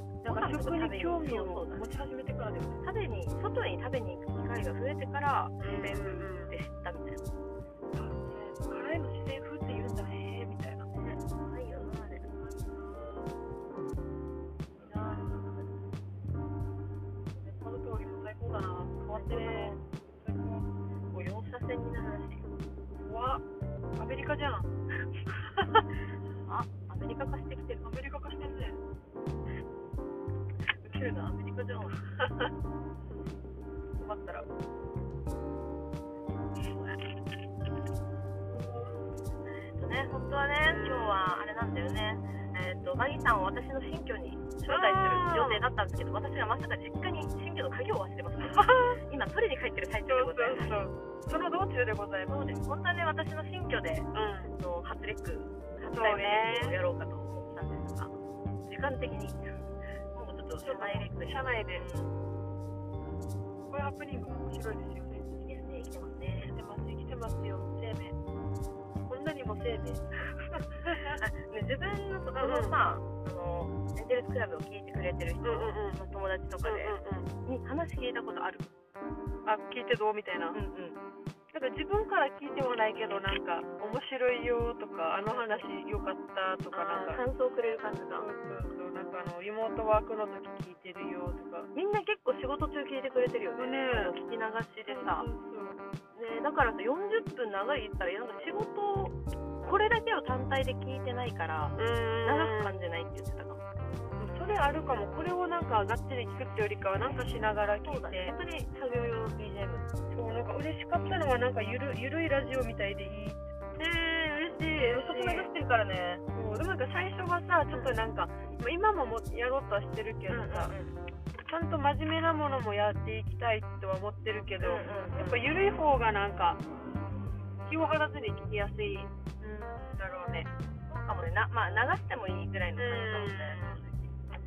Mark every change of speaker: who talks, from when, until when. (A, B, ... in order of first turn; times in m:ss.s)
0:00.2-0:02.8 A
0:00.2-0:01.8 B
0:02.8-0:07.2 B
0:05.6-0:06.5 A
0:07.9-0:11.1 A
0:10.9-0:12.7 B
0:12.4-0:13.3 A
0:14.8-0:15.6 A
0:14.8-0:15.7 B
0:17.4-0:20.7 A
0:19.1-0:19.8 B
0:21.1-0:22.5 B
0:23.0-0:23.4 A
0:24.0-0:24.7 A
0:25.3-0:25.9 A
0:26.4-0:27.9 B
0:27.8-0:28.8 A
0:30.7-0:32.0 B
0:34.0-0:34.5 A
0:36.7-0:37.0 B
0:38.6-0:39.0 A
0:39.6-0:50.8 B
0:40.7-0:41.2 A
0:44.7-0:45.6 A
0:48.4-0:49.0 A
0:50.1-0:52.6 A
0:52.3-1:02.2 B
0:54.1-0:54.5 A
0:55.9-0:56.8 A
1:00.6-1:01.8 A
1:03.7-1:05.4 A
1:05.4-1:06.5 B
1:06.5-1:08.2 A
1:09.1-1:10.0 A
1:10.3-1:18.7 B
1:10.9-1:11.2 A
1:12.3-1:12.8 A
1:15.4-1:16.0 A
1:16.6-1:17.3 A
1:19.4-1:20.6 A
1:20.5-1:21.0 B
1:21.5-1:27.2 A
1:25.3-1:25.6 B
1:26.7-1:28.3 B
1:28.2-1:31.7 A
1:31.7-1:35.3 B
1:33.6-1:34.2 A
1:34.8-1:35.8 A
1:36.1-1:43.6 B
1:41.8-1:42.8 A
1:44.2-1:48.4 A
1:47.8-1:49.9 B
1:50.1-1:53.4 A
1:53.8-1:56.2 B
1:54.7-1:55.5 A
1:56.3-2:00.7 A
2:00.3-2:01.0 B
2:01.4-2:06.6 A
2:04.6-2:05.5 B
2:07.6-2:09.1 A
2:09.4-2:10.0 B
2:09.8-2:10.5 A
2:10.9-2:14.2 B
2:12.8-2:13.8 A